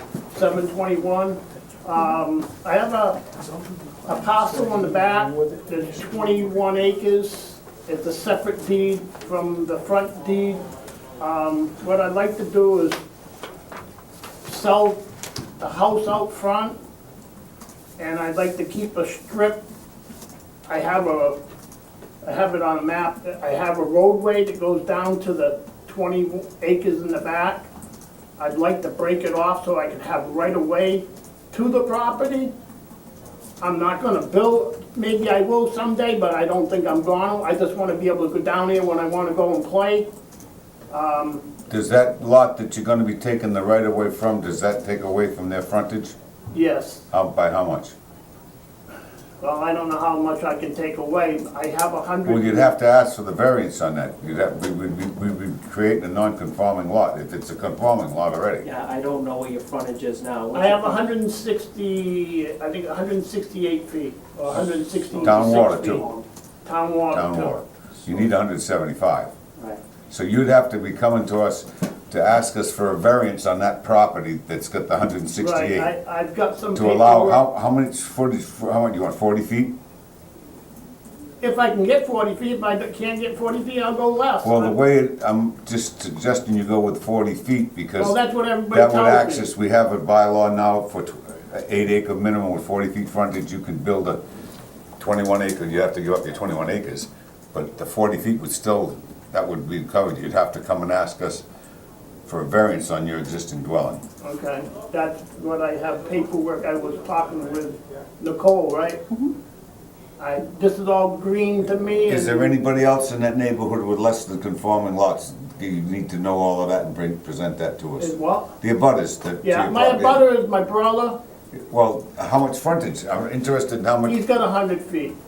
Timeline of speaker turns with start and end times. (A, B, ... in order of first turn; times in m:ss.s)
0:00.3-0:03.2 A
0:04.0-0:10.6 A
0:11.2-0:13.0 A
0:14.4-0:15.0 A
0:15.6-0:16.8 A
0:18.0-0:19.6 A
0:20.7-0:21.4 A
0:22.2-0:27.7 A
0:28.4-0:32.5 A
0:33.6-0:40.1 A
0:40.9-0:41.5 A
0:41.7-0:46.1 B
0:46.5-0:47.0 A
0:47.1-0:47.9 B
0:49.4-0:52.7 A
0:52.2-0:58.6 B
0:58.6-1:01.0 C
1:00.5-1:06.0 A
1:05.1-1:06.2 C
1:05.2-1:06.1 B
1:06.6-1:07.6 A
1:07.1-1:09.3 B
1:10.1-1:15.9 B
1:15.4-1:17.4 A
1:16.7-1:19.7 B
1:21.4-1:24.8 A
1:24.4-1:28.2 B
1:28.0-1:29.5 A
1:28.7-1:34.2 B
1:35.0-1:41.4 B
1:42.2-1:44.0 B
1:44.2-1:49.0 A
1:50.2-1:52.6 A
1:52.1-2:00.2 B
1:58.0-1:58.5 A
1:59.4-2:01.2 A
2:01.5-2:04.2 B
2:04.0-2:05.2 A